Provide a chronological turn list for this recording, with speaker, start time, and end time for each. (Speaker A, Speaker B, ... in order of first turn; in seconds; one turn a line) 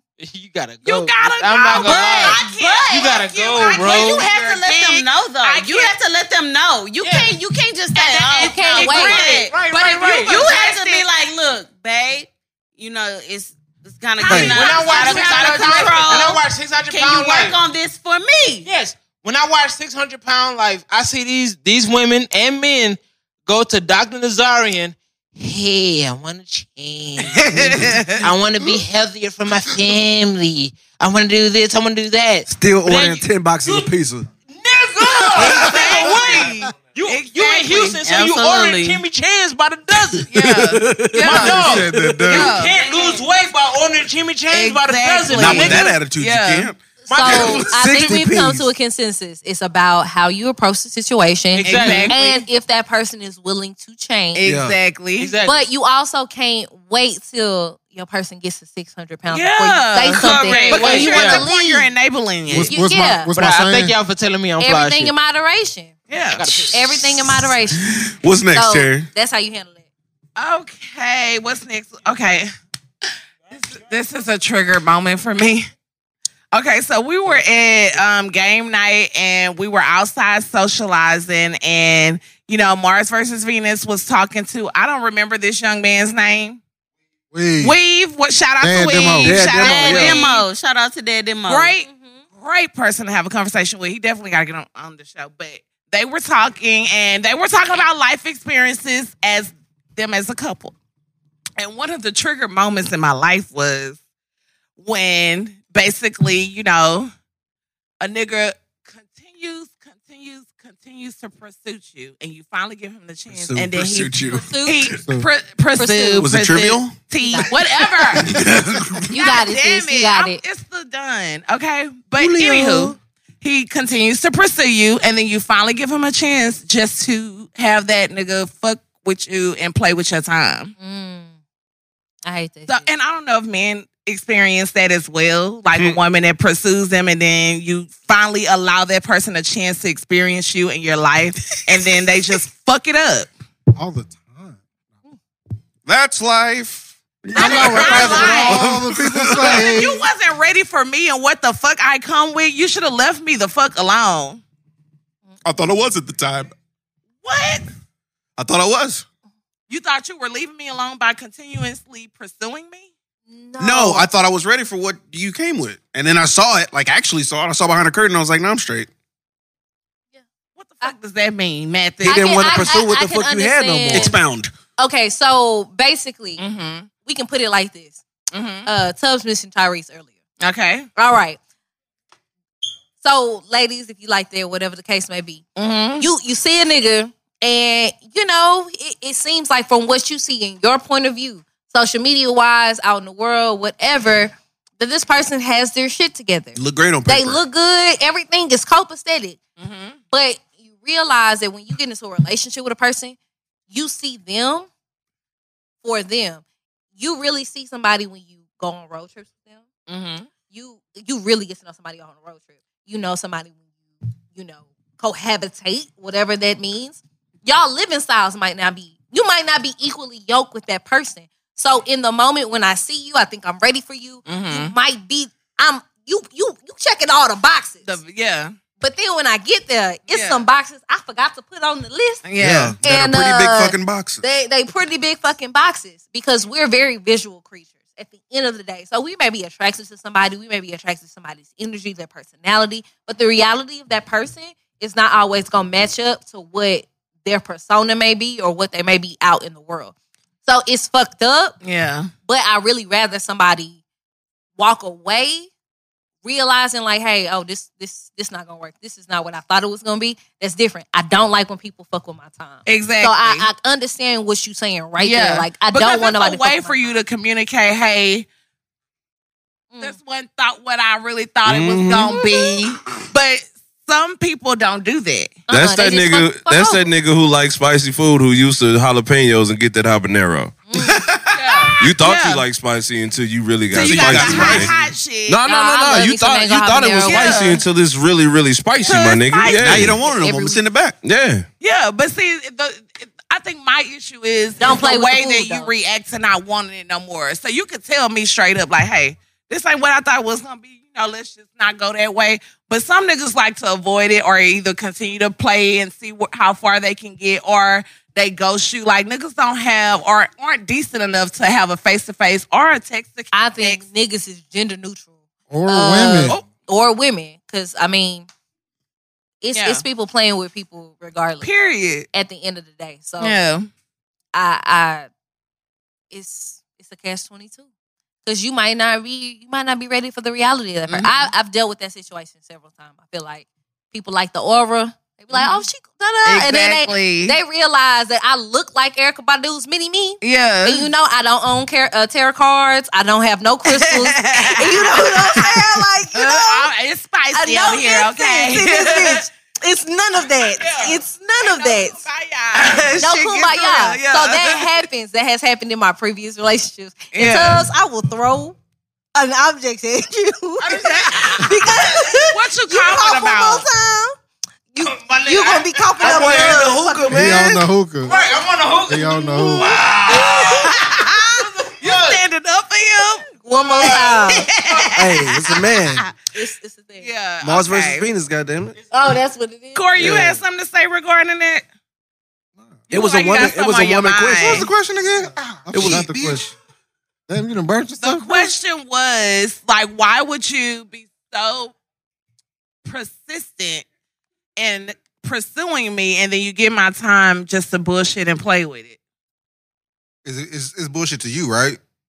Speaker A: 0.2-4.2
Speaker B: 0.9-6.0
Speaker C: 1.7-18.7
Speaker A: 7.0-7.3
Speaker B: 8.0-11.1
Speaker A: 8.4-10.4
Speaker D: 8.4-9.2
Speaker B: 14.2-16.4
Speaker E: 14.2-14.5
Speaker A: 14.4-17.6
Speaker A: 18.6-27.5
Speaker B: 27.5-28.2
Speaker A: 28.2-33.9
Speaker E: 32.5-34.3
Speaker A: 34.5-40.3
Speaker B: 35.3-38.0
Speaker C: 38.0-39.0
Speaker B: 40.3-42.8
Speaker E: 40.6-42.2
Speaker A: 41.1-45.9
Speaker F: 41.8-42.1
Speaker B: 44.5-46.7
Speaker G: 45.3-47.9
Speaker D: 47.0-54.5
Speaker A: 47.1-47.7
Speaker E: 47.7-48.7
Speaker A: 51.6-52.2
Speaker B: 51.6-52.5
Speaker B: 54.4-55.4
Speaker E: 54.4-54.8
Speaker A: 55.2-55.6
Speaker D: 55.5-61.9
Speaker B: 59.3-62.7
Speaker C: 60.1-61.1
Speaker A: 60.7-61.4
Speaker F: 62.5-63.9
Speaker D: 62.7-63.3
Speaker A: 63.3-65.1
Speaker D: 64.6-66.0
Speaker B: 66.1-66.6
Speaker A: 66.3-66.9
Speaker D: 66.7-67.8
Speaker G: 67.9-69.1
Speaker D: 68.5-69.8
Speaker B: 70.4-72.5
Speaker B: 73.5-75.7
Speaker B: 76.5-86.6
Speaker F: 87.3-87.8
Speaker B: 87.6-90.5
Speaker F: 88.6-89.5
Speaker E: 89.2-90.2
Speaker C: 89.5-91.7
Speaker B: 91.5-100.7
Speaker D: 91.8-92.2
Speaker B: 101.6-104.0
Speaker B: 104.8-107.1
Speaker B: 108.0-118.4
Speaker E: 113.4-113.7
Speaker G: 113.5-115.0
Speaker D: 114.3-114.9
Speaker D: 115.8-116.3
Speaker G: 116.2-117.0
Speaker D: 117.2-117.7
Speaker G: 118.2-119.2
Speaker D: 119.1-120.4
Speaker B: 119.1-130.7
Speaker E: 122.2-122.9
Speaker D: 130.8-131.3
Speaker D: 132.2-132.9
Speaker B: 132.7-143.3
Speaker F: 143.8-144.6
Speaker G: 145.9-149.8
Speaker D: 147.3-148.6
Speaker B: 147.4-148.6
Speaker F: 147.8-150.0
Speaker B: 149.5-154.4
Speaker G: 155.4-156.5
Speaker B: 157.2-157.7
Speaker G: 158.4-159.0
Speaker B: 159.7-162.9
Speaker D: 163.3-164.1
Speaker G: 163.6-168.9
Speaker B: 170.6-172.7
Speaker E: 172.0-174.2
Speaker D: 172.1-174.2
Speaker G: 173.9-174.5
Speaker D: 174.8-176.4
Speaker B: 176.4-176.9
Speaker D: 177.0-178.0
Speaker B: 178.3-178.7
Speaker D: 178.7-180.1
Speaker B: 180.4-180.9
Speaker D: 181.0-181.4
Speaker D: 183.0-185.5
Speaker B: 185.6-186.1
Speaker D: 186.0-199.4
Speaker G: 196.6-197.4
Speaker B: 199.6-200.0
Speaker D: 200.1-203.2
Speaker D: 203.7-204.7
Speaker D: 205.8-206.4
Speaker D: 207.0-209.7
Speaker B: 209.9-210.3
Speaker D: 210.4-213.6
Speaker D: 214.3-227.9
Speaker B: 224.2-224.8
Speaker B: 227.8-228.5
Speaker D: 228.8-249.9
Speaker B: 230.1-230.5
Speaker B: 232.2-232.8
Speaker G: 232.4-234.2
Speaker D: 250.4-251.6
Speaker B: 251.6-252.1
Speaker D: 252.3-253.8
Speaker D: 254.6-255.5
Speaker D: 256.2-267.0
Speaker B: 262.6-263.5
Speaker B: 265.0-268.3
Speaker B: 269.8-275.4
Speaker H: 271.5-272.3
Speaker D: 275.5-276.9
Speaker H: 275.5-280.6
Speaker D: 280.7-281.0
Speaker B: 281.3-282.4
Speaker H: 281.8-284.7
Speaker B: 283.7-285.5
Speaker G: 283.8-284.7
Speaker D: 285.4-287.6
Speaker G: 285.9-286.9
Speaker H: 286.0-290.0
Speaker B: 287.0-287.6
Speaker B: 288.8-290.1
Speaker G: 289.5-291.0
Speaker D: 289.9-290.6
Speaker H: 291.0-291.5
Speaker B: 291.6-313.8
Speaker D: 294.6-295.7
Speaker D: 313.3-315.1
Speaker F: 315.5-316.4
Speaker D: 315.7-318.3
Speaker D: 319.4-321.5
Speaker B: 319.5-319.9
Speaker B: 321.4-322.1
Speaker D: 322.1-323.4
Speaker B: 323.2-323.7
Speaker D: 324.3-325.1
Speaker D: 326.1-327.6
Speaker D: 328.2-346.7
Speaker B: 330.9-331.3
Speaker B: 335.3-335.6
Speaker B: 336.2-337.4
Speaker B: 340.2-340.9
Speaker B: 343.7-349.3
Speaker D: 347.3-352.0
Speaker B: 350.5-354.8
Speaker E: 352.8-353.1
Speaker D: 353.0-358.6
Speaker B: 357.1-357.7
Speaker D: 359.1-364.2
Speaker B: 360.6-363.7
Speaker D: 364.7-367.2
Speaker A: 364.9-366.7
Speaker B: 366.0-366.5
Speaker E: 366.0-367.6
Speaker F: 367.1-368.1
Speaker A: 368.1-370.7
Speaker F: 368.9-369.9
Speaker B: 370.1-376.3
Speaker A: 371.4-372.2
Speaker D: 373.4-374.5
Speaker A: 373.8-374.1
Speaker E: 375.0-376.0
Speaker D: 376.4-377.1
Speaker B: 377.0-378.1
Speaker E: 377.4-378.8
Speaker D: 378.9-380.1
Speaker B: 379.7-381.6
Speaker E: 380.0-380.4
Speaker E: 382.9-384.6
Speaker B: 382.9-384.7
Speaker I: 384.4-386.5
Speaker F: 385.7-386.5
Speaker E: 385.7-386.1
Speaker F: 387.3-388.5
Speaker B: 388.0-391.8
Speaker B: 392.9-393.9
Speaker B: 394.6-399.0
Speaker I: 400.2-401.8